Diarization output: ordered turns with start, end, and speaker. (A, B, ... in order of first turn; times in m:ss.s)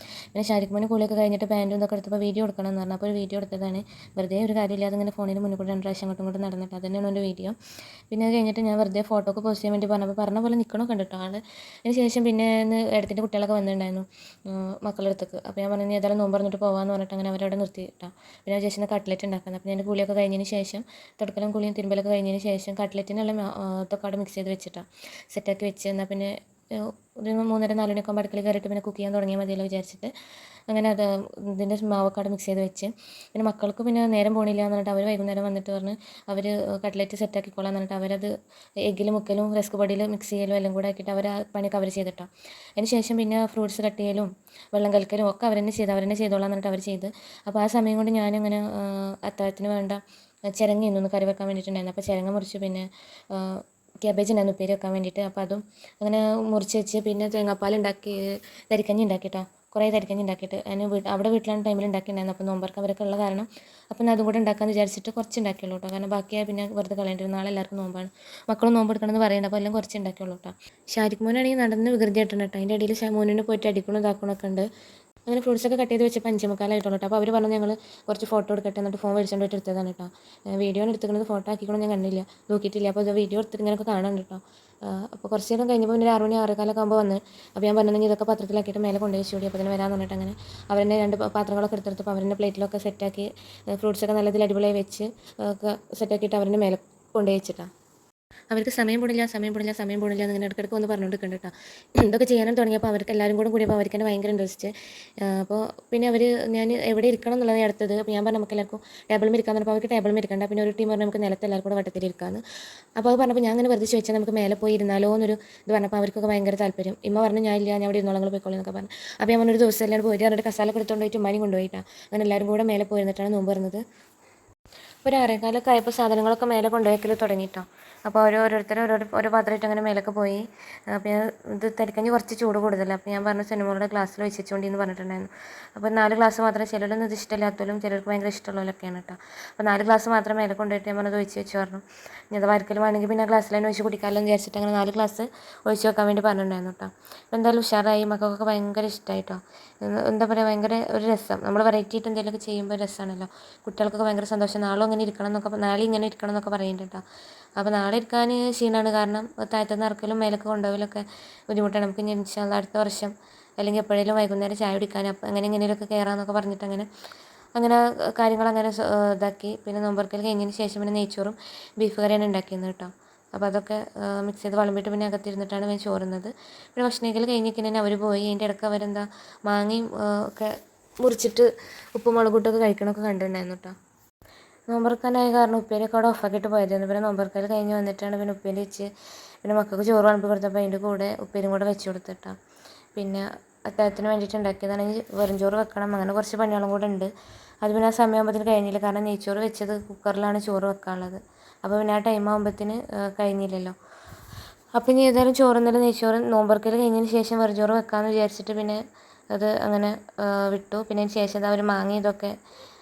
0:00.3-0:07.6 A
0:08.1-0:30.1 A
0:30.7-0:38.3 A
0:38.9-0:50.0 A
0:50.5-1:14.7 A
1:15.3-1:37.7 A
1:38.5-1:52.4 A
1:53.0-2:03.8 A
2:05.0-2:37.0 A
2:37.6-2:46.9 A
2:47.6-3:03.8 A
3:04.7-3:08.9 A
3:09.4-3:12.4 A
3:13.0-3:17.1 A
3:17.6-3:23.8 A
3:24.8-3:28.8 A
3:29.3-3:32.3 A